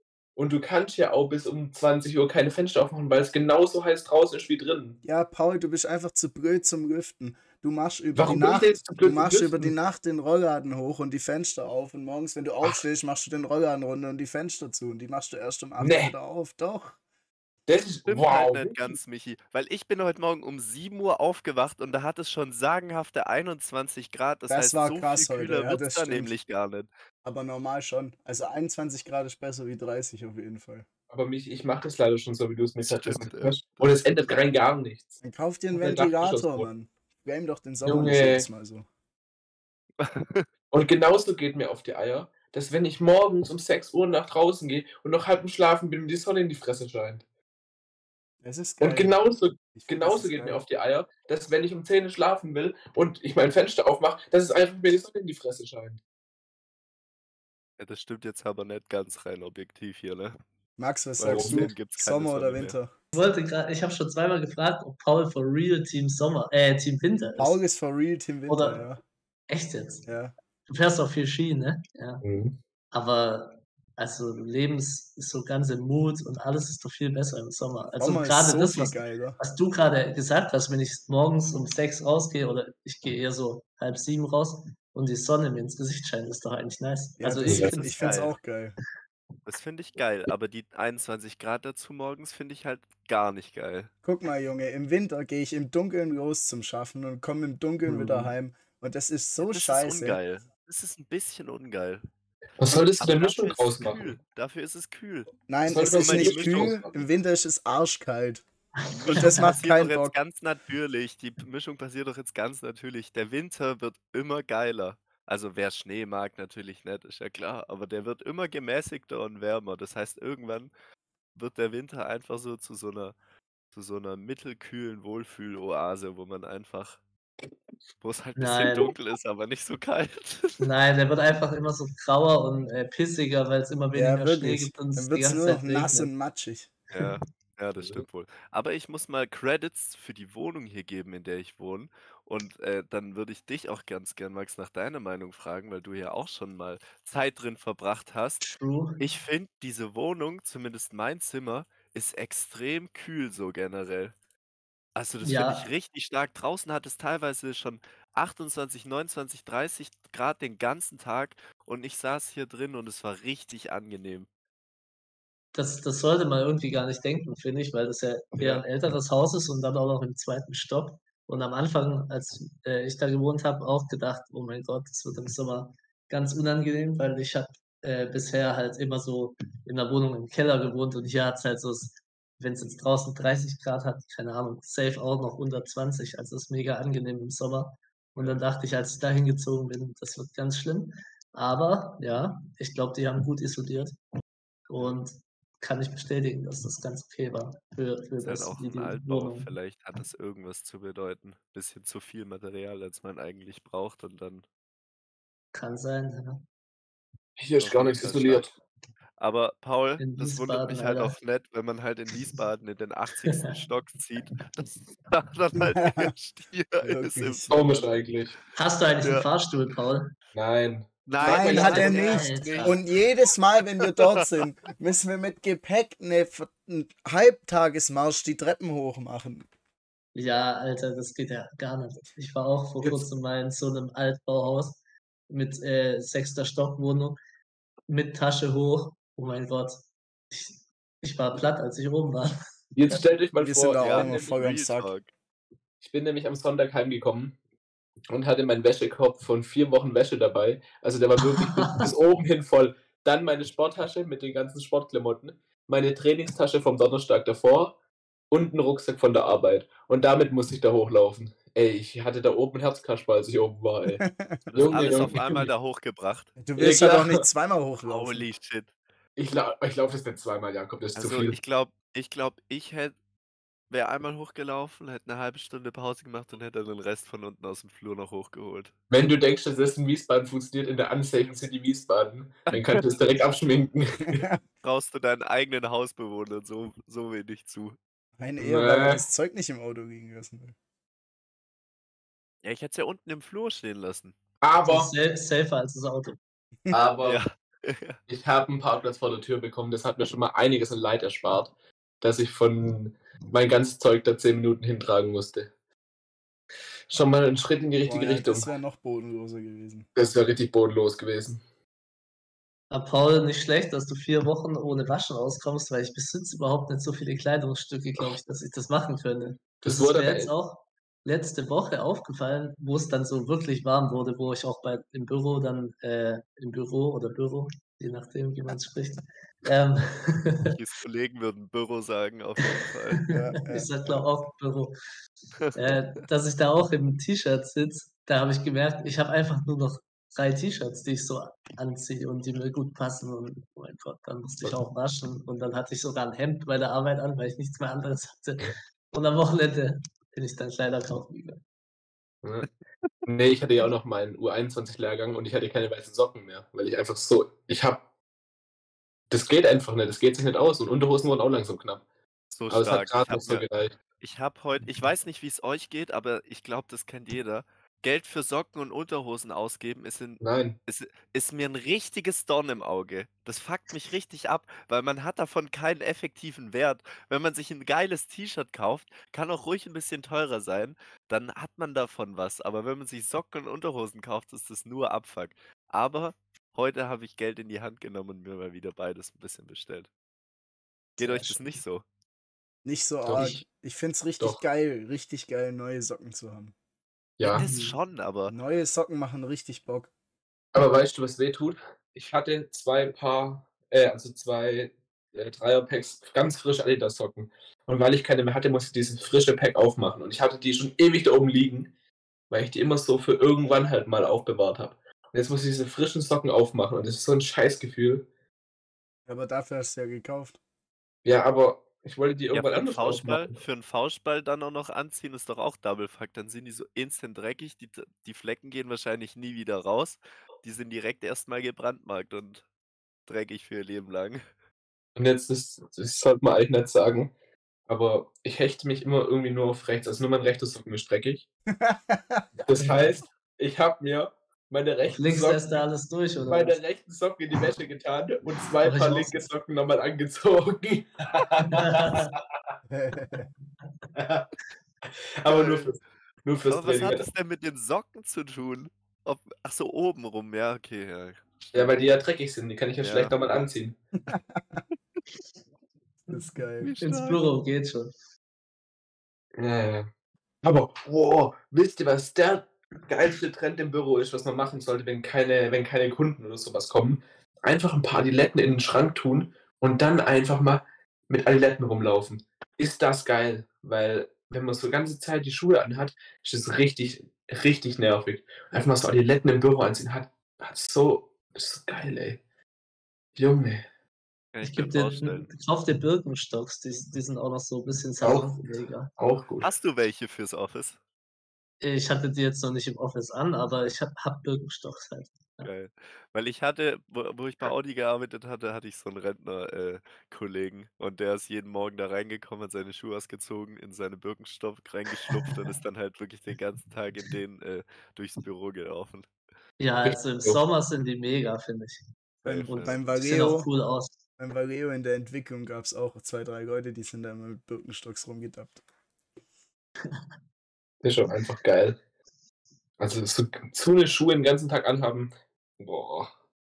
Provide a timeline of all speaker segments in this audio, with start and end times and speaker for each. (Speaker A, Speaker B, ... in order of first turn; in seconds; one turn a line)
Speaker A: 0.3-5.0
Speaker B: 5.0-17.0
Speaker A: 8.2-9.7
Speaker A: 15.8-16.1
Speaker A: 17.7-19.0
Speaker C: 18.1-26.9
Speaker B: 24.5-26.3
Speaker B: 27.2-30.9
Speaker A: 31.1-35.2
Speaker C: 32.8-33.9
Speaker B: 35.2-38.9
Speaker A: 35.7-36.7
Speaker A: 37.8-38.5
Speaker C: 40.0-40.5
Speaker A: 40.7-47.2
Speaker B: 48.4-49.1
Speaker A: 48.8-56.0
Speaker B: 49.7-50.6
Speaker C: 57.8-60.4
Speaker B: 60.8-62.9
Speaker C: 61.2-62.8
Speaker A: 61.2-61.7
Speaker D: 63.1-67.6
Speaker B: 67.3-69.0
Speaker D: 68.5-68.8
Speaker D: 69.5-70.0
Speaker B: 70.0-70.3
Speaker D: 70.7-72.2
Speaker A: 72.2-72.6
Speaker D: 72.9-88.2
Speaker B: 78.0-79.4
Speaker B: 87.2-88.7
Speaker C: 87.6-88.3
Speaker C: 89.5-93.9
Speaker B: 94.0-100.2
Speaker C: 99.4-102.0
Speaker A: 102.6-104.1
Speaker C: 102.6-106.8
Speaker B: 105.5-108.4
Speaker A: 105.7-107.0
Speaker D: 108.8-109.5
Speaker C: 109.0-120.7
Speaker B: 109.0-110.2
Speaker C: 121.3-123.1
Speaker C: 123.7-127.0
Speaker C: 128.0-130.7
Speaker D: 128.4-128.9
Speaker D: 130.6-136.1
Speaker B: 133.9-136.7
Speaker C: 136.9-148.5
Speaker A: 137.8-138.0
Speaker D: 148.4-149.0
Speaker C: 149.0-154.1
Speaker C: 154.9-164.3
Speaker D: 155.2-155.7
Speaker D: 165.5-194.0
Speaker D: 194.7-199.5
Speaker C: 198.2-204.4
Speaker D: 205.5-206.4
Speaker A: 207.4-208.5
Speaker C: 207.6-208.5
Speaker C: 209.2-217.9
Speaker D: 210.0-211.2
Speaker D: 213.3-213.5
Speaker B: 215.8-216.1
Speaker B: 216.8-217.6
Speaker A: 217.5-218.3
Speaker D: 218.5-220.1
Speaker C: 219.0-219.3
Speaker A: 220.3-222.2
Speaker C: 221.1-222.8
Speaker B: 221.2-229.4
Speaker D: 221.5-222.8
Speaker C: 223.8-224.2
Speaker D: 230.1-237.2
Speaker D: 237.9-242.3
Speaker A: 242.7-244.4
Speaker B: 243.4-244.9
Speaker C: 243.8-245.1
Speaker A: 245.8-247.3
Speaker A: 248.1-257.7
Speaker D: 251.2-251.9
Speaker A: 258.3-265.5
Speaker B: 263.9-264.4
Speaker C: 264.5-266.3
Speaker B: 266.4-268.3
Speaker A: 266.6-267.2
Speaker C: 267.8-268.7
Speaker A: 269.2-271.4
Speaker C: 270.9-272.9
Speaker C: 273.7-278.7
Speaker A: 278.9-284.2
Speaker C: 282.5-282.9
Speaker B: 284.0-284.4
Speaker C: 284.6-287.8
Speaker B: 288.2-290.6
Speaker A: 288.4-289.0
Speaker C: 292.4-294.1
Speaker A: 294.4-294.9
Speaker D: 294.6-296.2
Speaker A: 296.7-297.2
Speaker C: 297.0-298.0
Speaker A: 298.1-305.5
Speaker A: 306.9-308.5
Speaker B: 307.8-309.9
Speaker A: 309.9-311.4
Speaker D: 312.7-330.5
Speaker A: 319.6-320.3
Speaker C: 330.4-333.0
Speaker D: 332.4-332.7
Speaker B: 333.1-333.7
Speaker D: 333.5-334.7
Speaker C: 335.4-335.8
Speaker D: 335.5-351.4
Speaker A: 352.2-352.5
Speaker A: 353.1-357.8
Speaker A: 359.1-361.8
Speaker C: 362.3-363.4
Speaker A: 362.5-363.7
Speaker C: 364.0-389.9
Speaker A: 370.2-370.6
Speaker C: 391.0-391.8
Speaker D: 391.0-391.4
Speaker B: 392.6-396.5
Speaker A: 393.1-393.4
Speaker A: 397.2-397.4
Speaker C: 397.2-398.3
Speaker D: 397.4-397.7
Speaker B: 398.3-399.9
Speaker A: 400.5-411.7
Speaker A: 412.3-418.1
Speaker B: 419.1-420.4
Speaker A: 421.0-423.4
Speaker C: 422.3-432.4
Speaker C: 433.1-434.2
Speaker A: 434.9-437.1
Speaker A: 437.7-441.2
Speaker B: 441.5-442.3
Speaker A: 442.4-445.6
Speaker D: 444.9-446.6
Speaker A: 446.3-452.5
Speaker D: 448.6-449.3
Speaker D: 451.5-452.1
Speaker B: 452.7-453.3
Speaker A: 453.9-454.3
Speaker A: 454.9-457.1
Speaker C: 455.3-455.7
Speaker C: 456.5-461.7
Speaker A: 461.5-463.8
Speaker C: 462.8-463.1
Speaker B: 464.0-464.6
Speaker B: 466.1-466.7
Speaker C: 466.6-467.2
Speaker D: 466.8-467.9
Speaker A: 469.4-469.9
Speaker A: 470.4-492.2
Speaker A: 493.1-493.6
Speaker C: 494.3-495.3
Speaker D: 494.4-498.9
Speaker A: 498.0-499.5
Speaker C: 499.4-500.8
Speaker D: 501.6-505.5
Speaker C: 505.4-519.1
Speaker D: 515.1-515.4
Speaker D: 519.6-521.8
Speaker A: 519.8-520.4
Speaker C: 522.2-522.8
Speaker B: 522.2-523.5
Speaker D: 522.5-524.0
Speaker B: 524.2-528.6
Speaker A: 530.8-531.8
Speaker A: 532.8-536.1